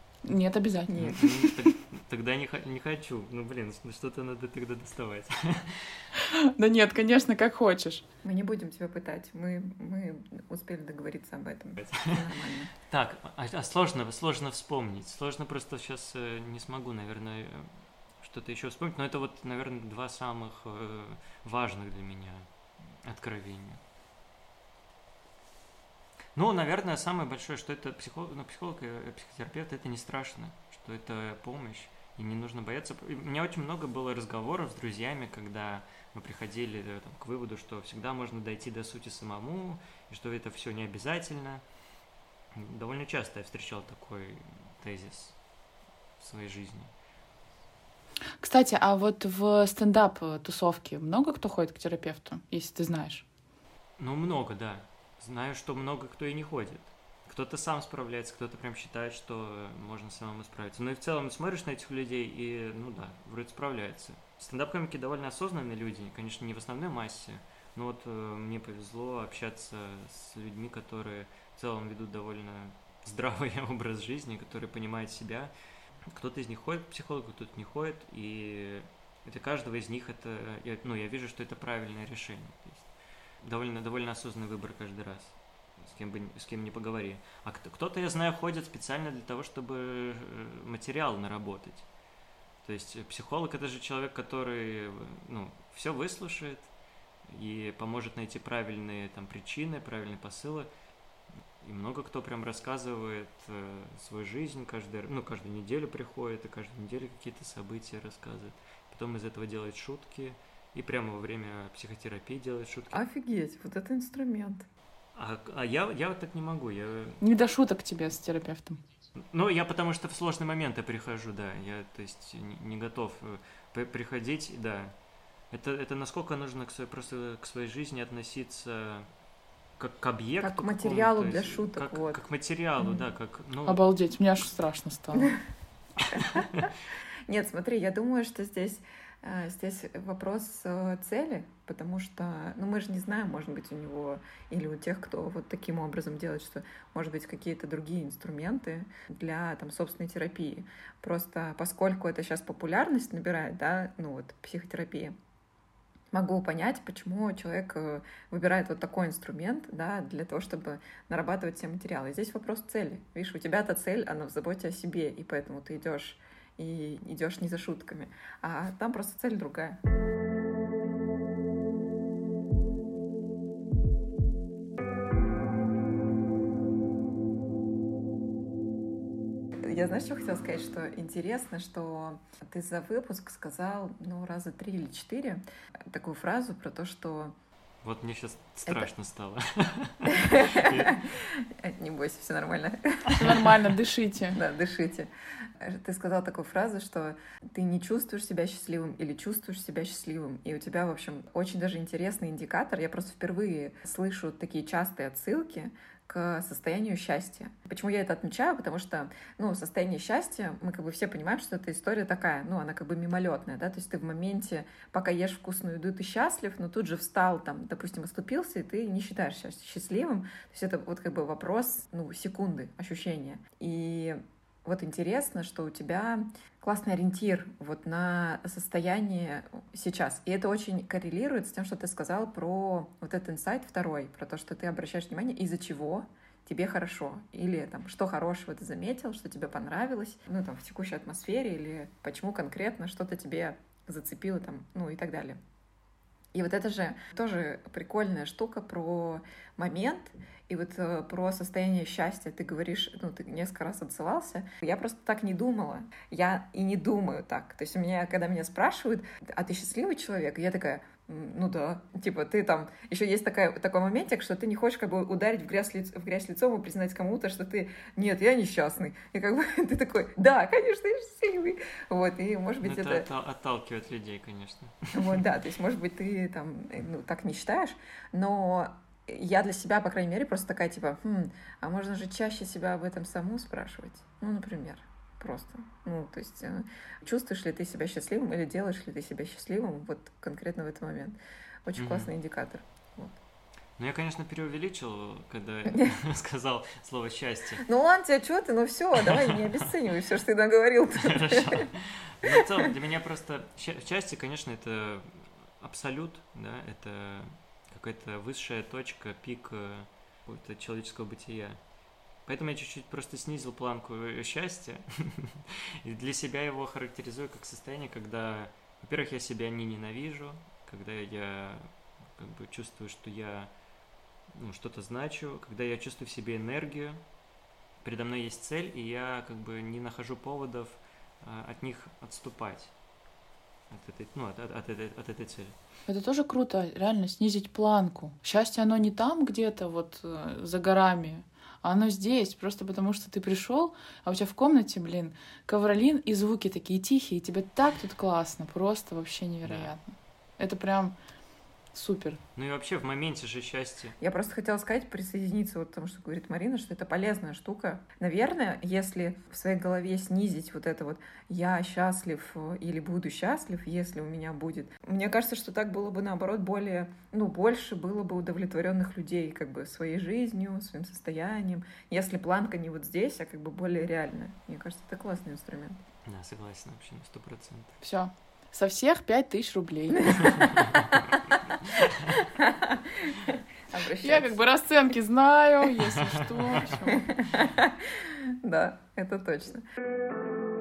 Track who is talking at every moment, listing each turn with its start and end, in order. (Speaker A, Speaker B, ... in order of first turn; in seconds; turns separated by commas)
Speaker A: 0.2-1.7, Speaker B: 0.9-1.2, Speaker C: 0.9-6.0, Speaker A: 6.2-8.0, Speaker B: 8.2-12.7, Speaker C: 11.8-12.3, Speaker C: 12.9-22.5, Speaker C: 23.0-23.8, Speaker C: 26.3-41.6, Speaker C: 42.5-45.3, Speaker C: 46.2-46.9, Speaker A: 48.4-53.2, Speaker C: 54.0-75.5, Speaker C: 76.1-82.9, Speaker C: 83.4-91.8, Speaker C: 92.6-96.7, Speaker C: 97.3-100.7, Speaker C: 101.6-113.0, Speaker B: 112.9-114.7, Speaker C: 115.1-117.2, Speaker A: 117.2-118.8, Speaker C: 119.3-124.9, Speaker C: 125.5-129.1, Speaker C: 129.8-133.8, Speaker B: 130.4-132.2, Speaker A: 133.7-135.4, Speaker B: 136.1-136.7, Speaker C: 136.1-136.7, Speaker B: 137.3-155.1, Speaker B: 156.1-169.8, Speaker B: 179.6-187.3, Speaker C: 187.8-191.0, Speaker B: 190.1-193.4, Speaker A: 193.1-194.4, Speaker B: 194.3-245.4, Speaker B: 246.3-273.1, Speaker C: 272.6-275.2, Speaker B: 274.9-293.2, Speaker C: 291.8-292.1, Speaker C: 293.8-297.6, Speaker B: 295.7-295.9, Speaker B: 297.6-301.7, Speaker C: 299.0-299.5, Speaker C: 300.9-311.6, Speaker B: 302.2-302.7, Speaker C: 312.2-323.5, Speaker C: 324.3-327.0, Speaker C: 327.8-332.7, Speaker C: 333.7-335.6, Speaker A: 335.9-350.9, Speaker C: 349.4-349.7, Speaker A: 351.7-352.2, Speaker C: 352.4-353.9, Speaker B: 354.0-375.8, Speaker C: 376.0-377.8, Speaker A: 377.8-380.3, Speaker B: 380.0-381.0, Speaker C: 380.3-381.0, Speaker B: 381.7-384.4, Speaker A: 384.0-387.1, Speaker C: 385.9-386.6, Speaker B: 387.0-389.6